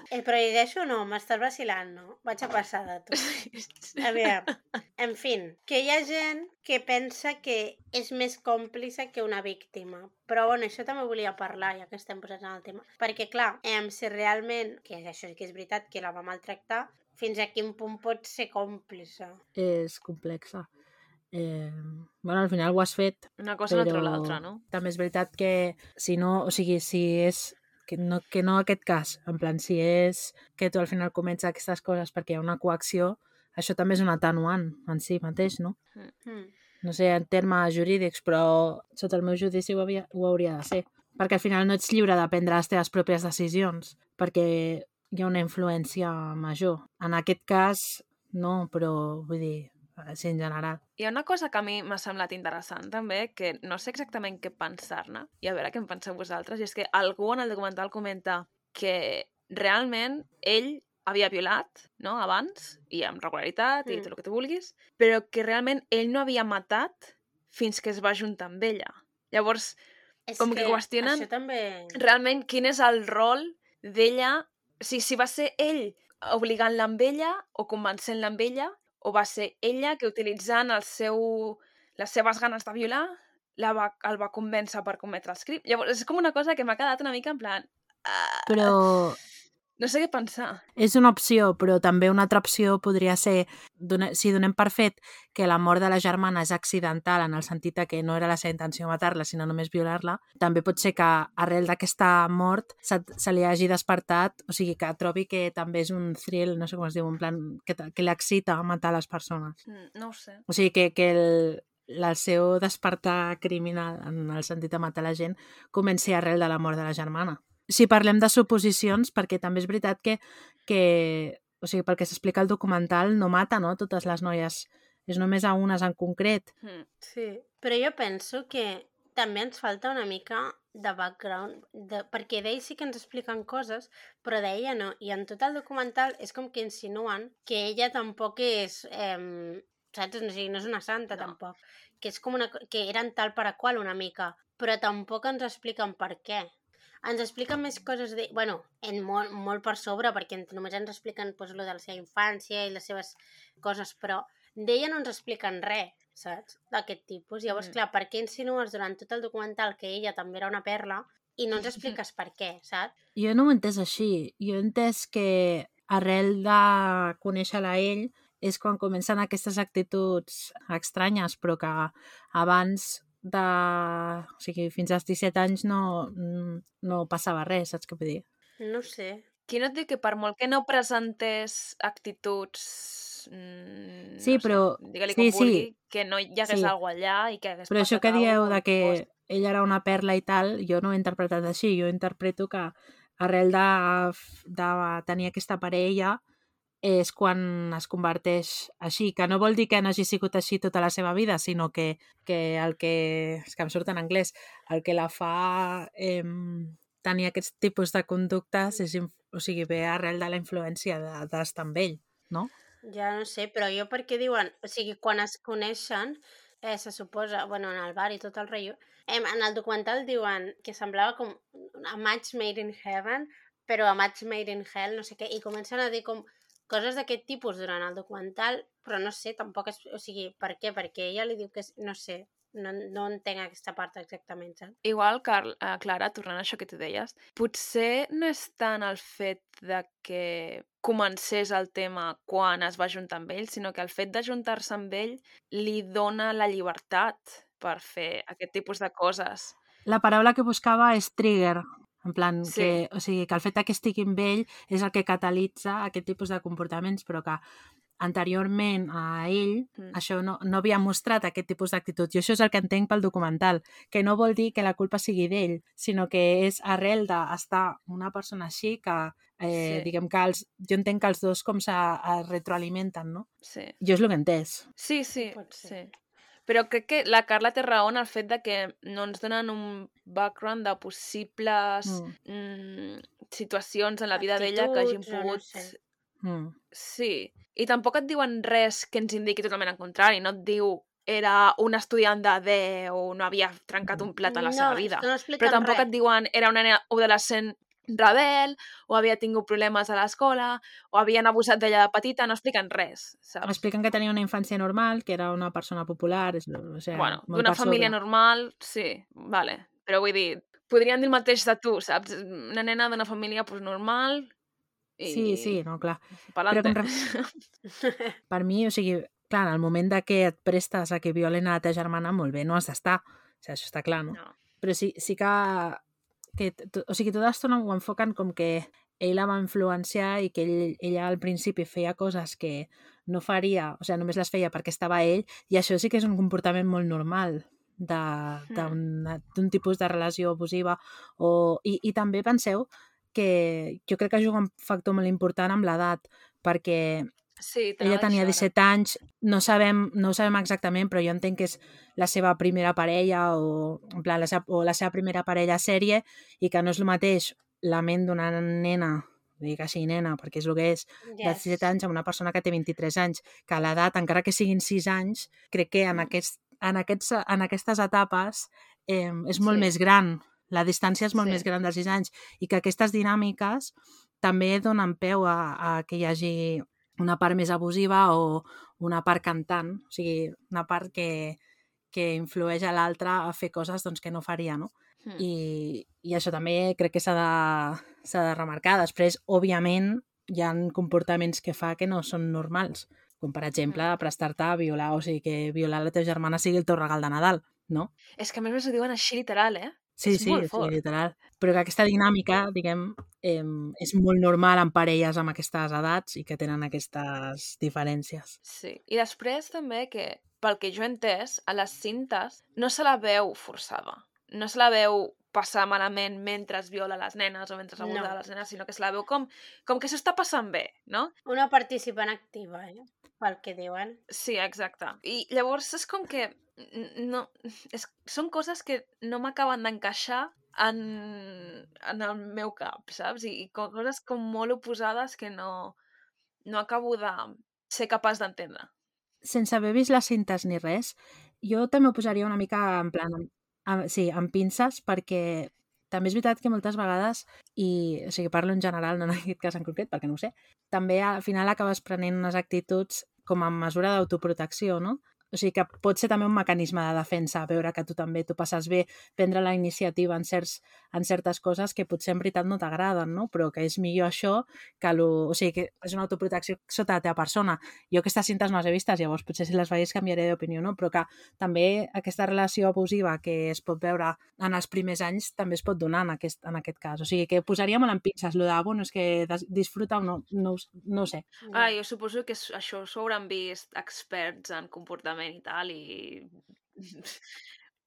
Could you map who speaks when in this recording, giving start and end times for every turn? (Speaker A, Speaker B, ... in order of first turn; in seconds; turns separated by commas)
Speaker A: 0.1-3.2, Speaker B: 3.1-4.5, Speaker A: 4.0-19.4, Speaker C: 19.6-20.7, Speaker C: 21.3-35.8, Speaker B: 23.4-24.6, Speaker A: 36.2-36.5, Speaker C: 36.8-50.8, Speaker B: 51.0-69.8, Speaker A: 63.8-64.1, Speaker A: 70.3-72.0, Speaker B: 70.4-71.3, Speaker B: 71.9-88.8, Speaker C: 88.5-89.2, Speaker B: 89.8-90.6, Speaker C: 90.8-109.6, Speaker B: 109.7-110.4, Speaker C: 110.5-126.5, Speaker A: 127.0-146.5, Speaker A: 147.0-162.9, Speaker B: 161.6-162.0, Speaker C: 163.2-178.2, Speaker A: 178.6-179.2, Speaker B: 179.5-189.0, Speaker C: 184.2-185.7, Speaker C: 186.5-186.7, Speaker C: 187.7-196.2, Speaker C: 196.8-212.5, Speaker A: 212.8-234.7, Speaker B: 234.8-249.6, Speaker C: 249.9-257.4, Speaker B: 252.4-252.8, Speaker C: 258.0-273.3, Speaker B: 269.5-269.9, Speaker B: 273.4-273.7, Speaker C: 273.8-274.7, Speaker B: 274.8-275.9, Speaker A: 275.1-275.8, Speaker B: 276.5-285.8, Speaker C: 281.8-282.1, Speaker A: 284.1-285.7, Speaker C: 286.2-286.6, Speaker B: 286.7-303.6, Speaker A: 294.2-295.9, Speaker C: 303.4-307.9, Speaker B: 306.9-314.3, Speaker B: 315.0-315.6, Speaker C: 315.1-316.9, Speaker B: 316.3-317.4, Speaker A: 317.8-318.1, Speaker C: 318.3-325.8, Speaker C: 326.3-347.1, Speaker B: 338.5-338.8, Speaker B: 347.4-348.5, Speaker C: 347.8-381.4, Speaker A: 361.1-361.6, Speaker B: 369.4-369.7, Speaker B: 371.1-371.4, Speaker C: 381.9-397.9, Speaker B: 398.2-400.8, Speaker C: 400.0-408.4, Speaker B: 408.4-421.1, Speaker A: 417.8-418.1, Speaker A: 421.2-424.0, Speaker B: 424.1-435.8, Speaker B: 436.4-438.7, Speaker C: 439.2-481.3, Speaker A: 481.4-481.8, Speaker B: 481.5-487.4